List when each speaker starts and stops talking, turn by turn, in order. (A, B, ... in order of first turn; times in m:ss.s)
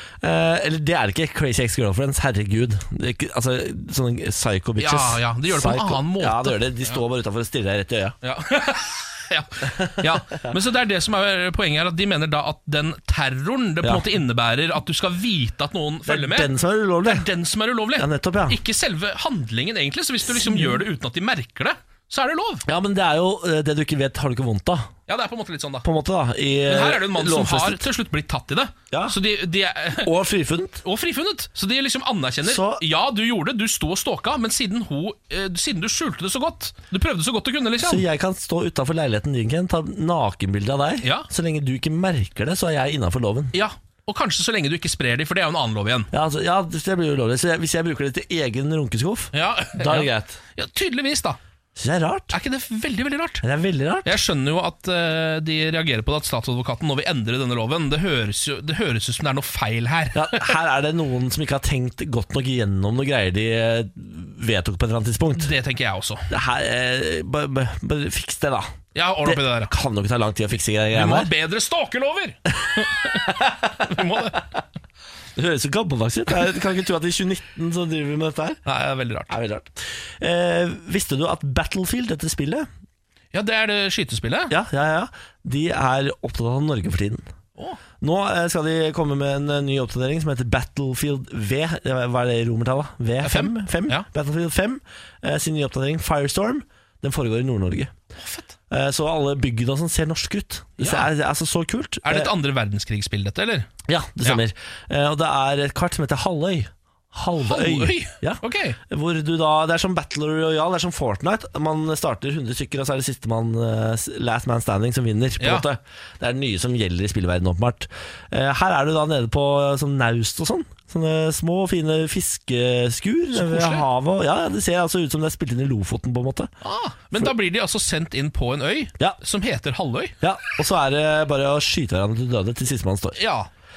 0:00.2-0:08.2 A
0:04.8-0:07.0 B
0:08.2-0:16.5 B
0:09.8-0:10.5 A
0:16.0-0:17.2 A
0:17.0-0:22.6 B
0:18.0-0:18.6 A
0:20.5-0:20.8 A
0:22.6-0:24.9 A
0:25.1-0:25.8 B
0:25.8-0:27.9 A
0:26.6-0:30.1 B
0:28.9-0:29.2 A
0:30.0-0:30.8 A
0:30.8-0:38.0 B
0:32.4-0:32.8 A
0:37.8-0:43.5 A
0:41.0-0:41.3 B
0:43.5-0:46.1 B
0:46.1-0:50.4 A
0:49.3-0:51.4 B
0:51.8-0:52.3 A
0:52.3-0:53.4 B
0:53.4-0:54.2 A
0:54.0-1:00.5 B
1:00.1-1:05.5 A
1:05.3-1:06.3 B
1:06.3-1:08.7 A
1:08.9-1:09.7 B
1:09.2-1:11.3 A
1:10.9-1:14.4 B
1:12.6-1:13.6 A
1:15.3-1:18.6 A
1:18.6-1:19.3 B
1:19.3-1:22.7 A
1:23.3-1:24.5 B
1:24.5-1:27.2 A
1:28.0-1:37.9 A
1:33.2-1:34.0 B
1:38.2-1:38.5 B
1:38.7-1:42.3 A
1:40.8-1:41.1 B
1:42.0-1:43.7 B
1:43.9-2:06.5 A
1:47.4-1:48.8 B
1:55.4-1:55.6 B
2:03.3-2:03.8 B
2:06.6-2:10.2 B
2:10.2-2:13.2 A
2:13.2-2:13.5 B